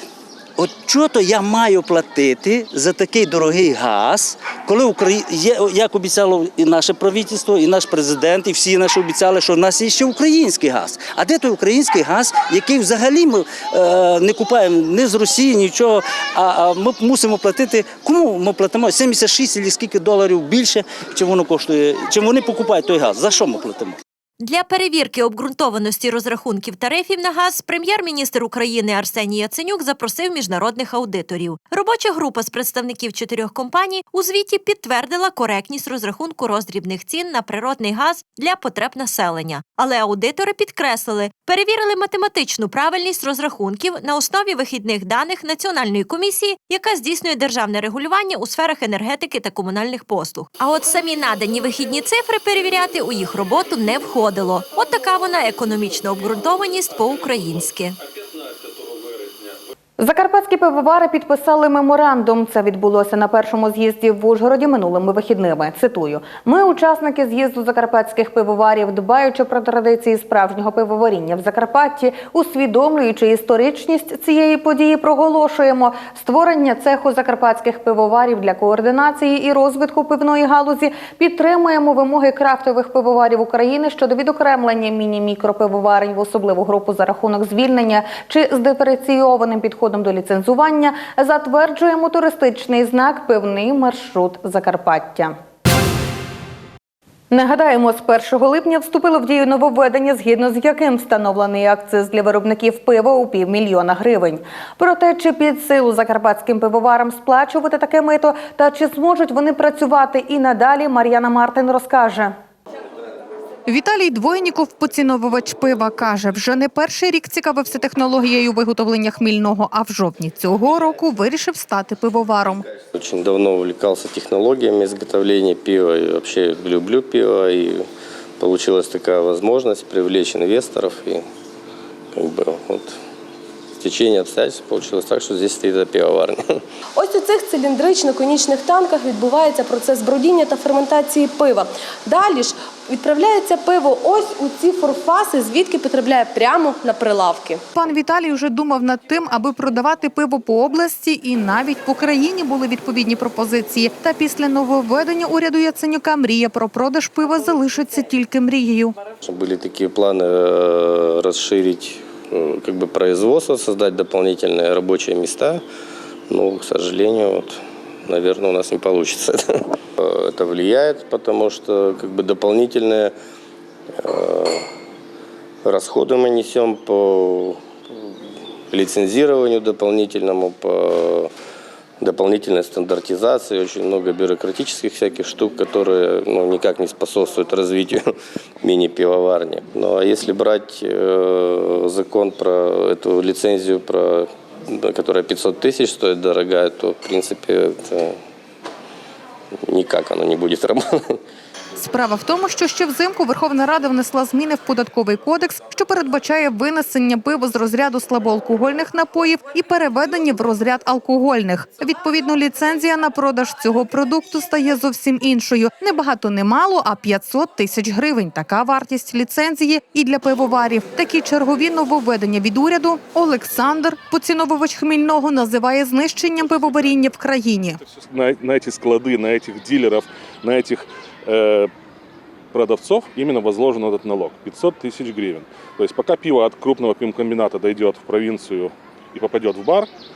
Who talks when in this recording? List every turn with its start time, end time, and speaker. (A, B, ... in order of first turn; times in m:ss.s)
0:00.6-0:24.0 A
0:24.4-0:58.0 B
1:00.0-1:35.3 C
1:37.3-1:52.3 C
1:53.6-2:02.6 D
2:02.9-2:07.9 E
2:08.4-2:11.2 E
2:12.1-2:13.0 E
2:13.8-2:16.6 E
2:16.9-2:27.6 F
2:27.7-2:39.0 D
2:39.2-2:45.6 E
2:46.3-2:49.4 E
2:50.0-2:53.1 E
2:54.0-2:54.6 E
2:55.6-2:58.2 E
2:58.7-3:01.3 E
3:02.0-3:08.0 E
3:08.6-3:18.2 E
3:19.7-3:21.2 E
3:21.8-3:47.8 D
3:48.0-3:51.7 G
3:52.5-3:59.9 G